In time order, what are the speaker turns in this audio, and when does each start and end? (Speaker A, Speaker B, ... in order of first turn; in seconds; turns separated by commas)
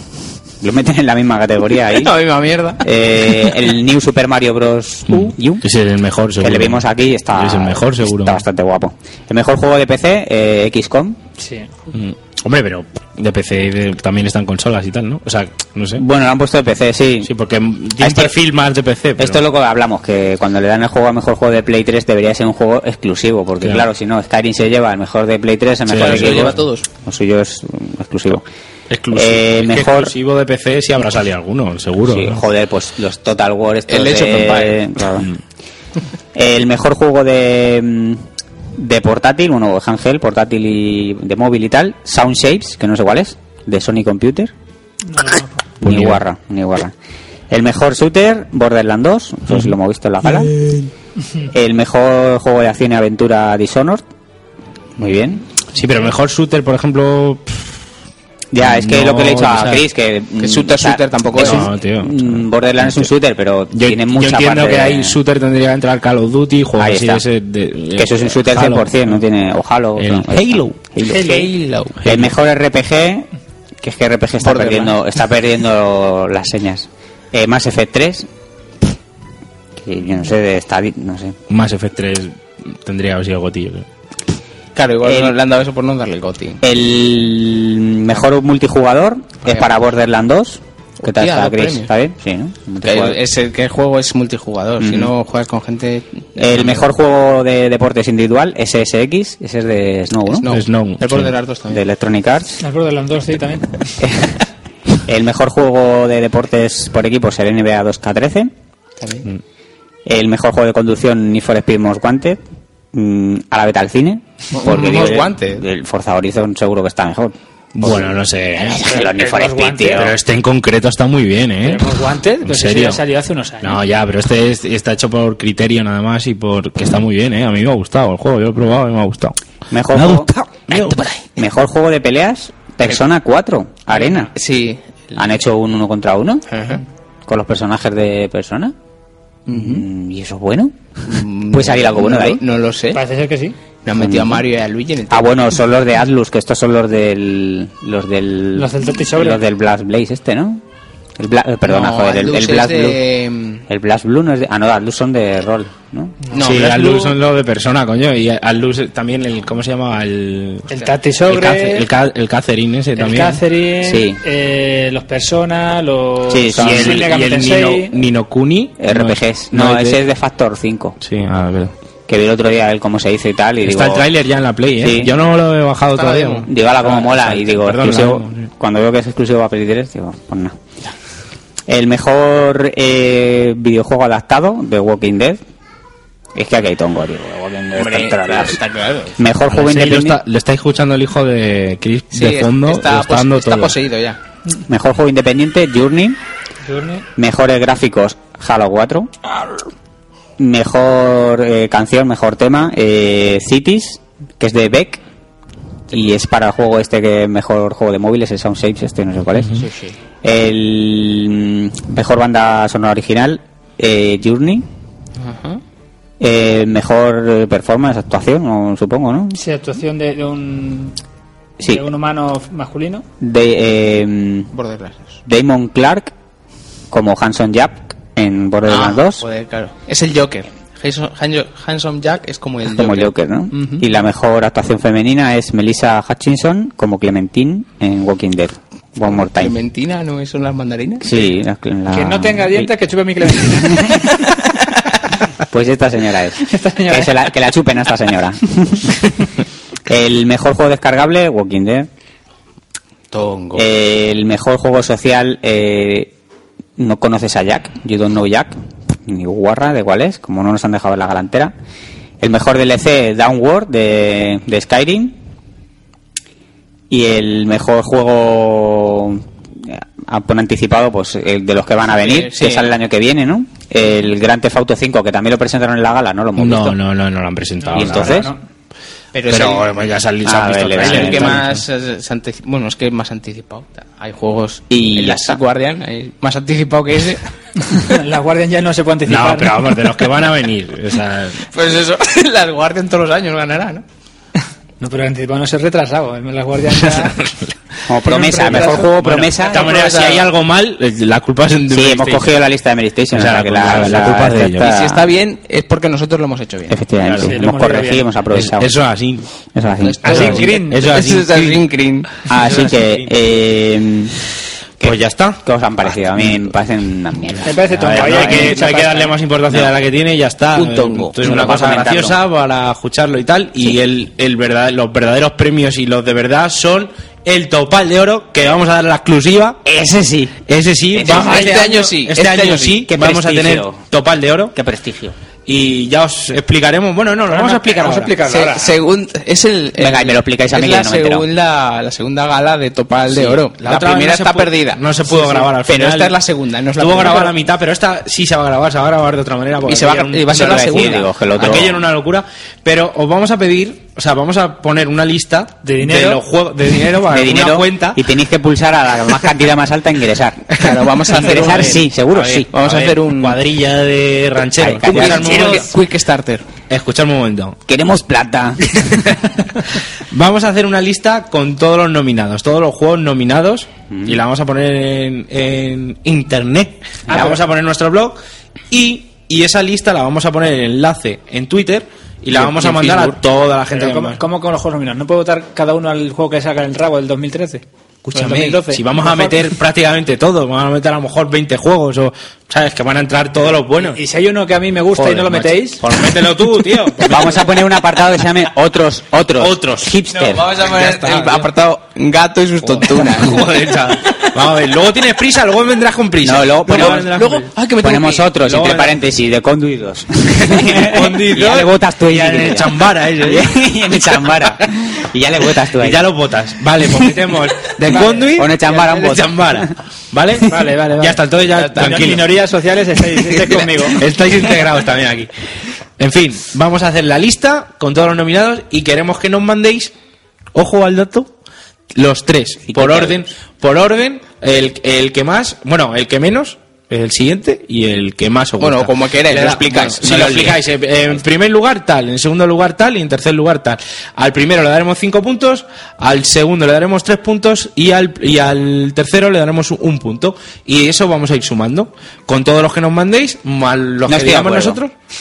Speaker A: 0.6-2.1, Speaker B: 1.9-2.8, Speaker A: 2.8-5.6, Speaker C: 5.1-8.4, Speaker A: 6.4-11.2, Speaker D: 11.4-11.7, Speaker C: 11.9-16.0, Speaker A: 15.9-17.3, Speaker C: 17.2-19.4, Speaker A: 18.0-18.3, Speaker A: 19.2-28.4, Speaker C: 23.6-23.9, Speaker C: 25.9-26.6, Speaker B: 25.9-26.9, Speaker C: 28.9-32.4, Speaker A: 29.1-30.1, Speaker A: 32.0-35.3, Speaker B: 33.9-34.9, Speaker A: 36.3-38.2, Speaker A: 38.8-44.5, Speaker D: 45.1-45.5, Speaker A: 45.8-46.9, Speaker C: 45.8-46.2, Speaker A: 47.5-50.5, Speaker A: 51.5-54.0, Speaker A: 55.0-55.4, Speaker C: 55.7-57.6, Speaker A: 58.5-65.2, Speaker C: 58.6-59.8, Speaker B: 60.4-61.6, Speaker C: 61.3-63.1, Speaker C: 63.7-69.2, Speaker A: 66.8-67.2, Speaker A: 68.0-71.3, Speaker C: 70.0-70.7, Speaker D: 71.1-71.5, Speaker B: 71.2-72.0, Speaker C: 72.0-72.3, Speaker A: 72.0-73.3, Speaker A: 73.8-78.3, Speaker B: 74.4-75.0, Speaker A: 79.8-81.4, Speaker C: 81.5-83.8, Speaker B: 84.7-86.6, Speaker A: 85.0-85.3, Speaker A: 86.6-93.2, Speaker B: 89.4-89.7, Speaker B: 91.0-91.9, Speaker B: 92.8-96.8, Speaker A: 94.8-95.1, Speaker A: 96.4-100.5, Speaker B: 100.3-101.8, Speaker C: 100.5-101.3, Speaker A: 101.7-102.6, Speaker D: 102.6-103.8, Speaker A: 104.0-104.3, Speaker A: 105.0-108.5, Speaker B: 109.0-109.2, Speaker A: 110.0-112.4, Speaker A: 112.9-118.1, Speaker B: 114.5-115.6, Speaker C: 117.8-118.9, Speaker D: 118.7-120.1, Speaker A: 118.7-120.1, Speaker C: 120.0-121.8, Speaker D: 121.6-123.8, Speaker C: 122.4-123.0, Speaker C: 123.6-129.3, Speaker A: 129.7-134.3, Speaker C: 129.9-131.1, Speaker D: 133.9-134.3, Speaker B: 134.3-135.3, Speaker A: 135.2-136.5, Speaker B: 136.5-136.8, Speaker A: 137.3-138.7, Speaker B: 139.5-139.8, Speaker A: 139.5-140.7, Speaker B: 141.1-143.0, Speaker A: 141.5-142.4, Speaker D: 142.9-143.6, Speaker B: 143.8-145.5, Speaker A: 144.0-144.4, Speaker A: 145.1-150.6, Speaker D: 148.5-149.4, Speaker A: 151.2-153.0, Speaker B: 151.7-153.6, Speaker A: 153.7-156.2, Speaker D: 156.2-157.1, Speaker B: 156.3-156.8, Speaker C: 156.4-160.7, Speaker D: 160.7-161.9, Speaker C: 161.3-163.4, Speaker D: 162.9-168.0, Speaker A: 163.8-164.2, Speaker A: 166.3-167.1, Speaker C: 166.6-170.1, Speaker A: 168.8-171.0, Speaker C: 171.0-171.7, Speaker A: 172.1-174.1, Speaker C: 173.6-178.5, Speaker A: 174.8-175.1, Speaker B: 175.9-176.5, Speaker A: 176.5-180.6, Speaker A: 181.7-185.4, Speaker A: 186.3-188.6, Speaker B: 187.7-189.2, Speaker A: 189.2-190.2, Speaker C: 189.6-193.8, Speaker B: 192.1-194.2, Speaker A: 194.7-196.2, Speaker D: 196.6-197.0, Speaker A: 197.2-199.1, Speaker A: 200.4-205.0, Speaker A: 205.9-209.6, Speaker B: 209.6-209.9, Speaker A: 210.2-214.6, Speaker B: 215.2-215.6, Speaker A: 216.2-219.4, Speaker D: 219.3-220.9, Speaker D: 221.6-223.0, Speaker A: 223.2-224.5, Speaker B: 224.5-225.1, Speaker A: 225.2-226.1, Speaker A: 226.9-229.2, Speaker B: 228.7-233.8, Speaker A: 232.7-239.5, Speaker B: 239.1-241.3, Speaker A: 241.0-242.7, Speaker D: 241.9-244.1, Speaker A: 243.6-243.9, Speaker A: 245.5-249.0, Speaker D: 246.5-247.1, Speaker A: 249.9-251.9, Speaker B: 253.1-253.6, Speaker A: 253.5-256.1, Speaker A: 256.8-261.5, Speaker A: 262.2-265.1, Speaker A: 266.9-276.8, Speaker B: 271.9-272.7, Speaker C: 276.4-278.3, Speaker D: 277.6-278.4, Speaker A: 277.7-278.3, Speaker B: 279.1-279.7, Speaker C: 279.3-281.6, Speaker A: 280.2-281.5, Speaker B: 280.7-287.2, Speaker A: 284.7-285.4, Speaker D: 287.9-289.7, Speaker C: 289.1-291.4, Speaker B: 291.5-293.8, Speaker D: 294.8-297.1, Speaker A: 297.9-299.8, Speaker D: 298.1-298.8, Speaker B: 298.4-298.8, Speaker C: 298.6-302.4, Speaker B: 299.6-300.2, Speaker A: 301.7-305.0, Speaker C: 303.1-304.7, Speaker B: 304.6-306.8, Speaker A: 306.7-308.7, Speaker D: 307.1-308.1, Speaker C: 308.3-309.2, Speaker A: 309.5-310.5, Speaker B: 309.8-312.1, Speaker D: 310.0-311.0, Speaker C: 310.0-311.6, Speaker C: 312.3-313.1, Speaker A: 312.3-314.1, Speaker A: 314.8-318.6, Speaker C: 314.8-315.4, Speaker D: 317.4-319.1, Speaker C: 317.8-329.6, Speaker B: 320.6-321.1, Speaker A: 321.1-322.2, Speaker A: 329.6-330.4, Speaker C: 330.5-334.5, Speaker A: 330.9-331.6, Speaker B: 331.0-332.8, Speaker A: 332.9-333.8, Speaker A: 334.5-335.1, Speaker C: 335.4-338.1, Speaker D: 337.3-338.8, Speaker B: 338.3-347.3, Speaker A: 339.8-341.2, Speaker C: 343.3-346.2, Speaker C: 346.8-350.8, Speaker B: 349.6-351.1, Speaker A: 350.3-351.8, Speaker C: 351.4-358.0, Speaker D: 355.6-356.2, Speaker A: 357.1-362.5, Speaker B: 360.5-361.9, Speaker C: 362.1-365.6, Speaker B: 362.5-363.4, Speaker A: 364.6-365.6, Speaker B: 364.8-366.4, Speaker D: 365.1-365.6, Speaker C: 366.7-367.6, Speaker A: 367.7-368.9, Speaker C: 370.1-378.2, Speaker A: 373.9-374.2, Speaker D: 377.1-377.4, Speaker C: 378.7-384.2, Speaker B: 382.3-383.1, Speaker D: 383.7-389.5, Speaker C: 388.1-394.0, Speaker D: 393.8-395.8, Speaker C: 394.9-397.5, Speaker A: 397.0-400.6, Speaker C: 399.4-399.9, Speaker B: 400.2-403.5, Speaker C: 400.8-401.4, Speaker C: 402.6-407.5, Speaker A: 406.2-407.1, Speaker B: 406.7-408.3, Speaker A: 407.8-416.1, Speaker C: 408.4-408.9, Speaker C: 410.4-413.5, Speaker C: 415.8-422.3, Speaker A: 416.9-417.2, Speaker A: 418.0-419.7, Speaker B: 418.6-419.1, Speaker D: 420.5-421.2, Speaker B: 421.5-422.1, Speaker D: 421.8-424.0, Speaker C: 424.0-425.3, Speaker C: 426.0-429.9, Speaker C: 430.5-431.3, Speaker C: 431.9-454.9, Speaker A: 432.7-433.2, Speaker B: 438.6-440.5, Speaker A: 454.1-454.8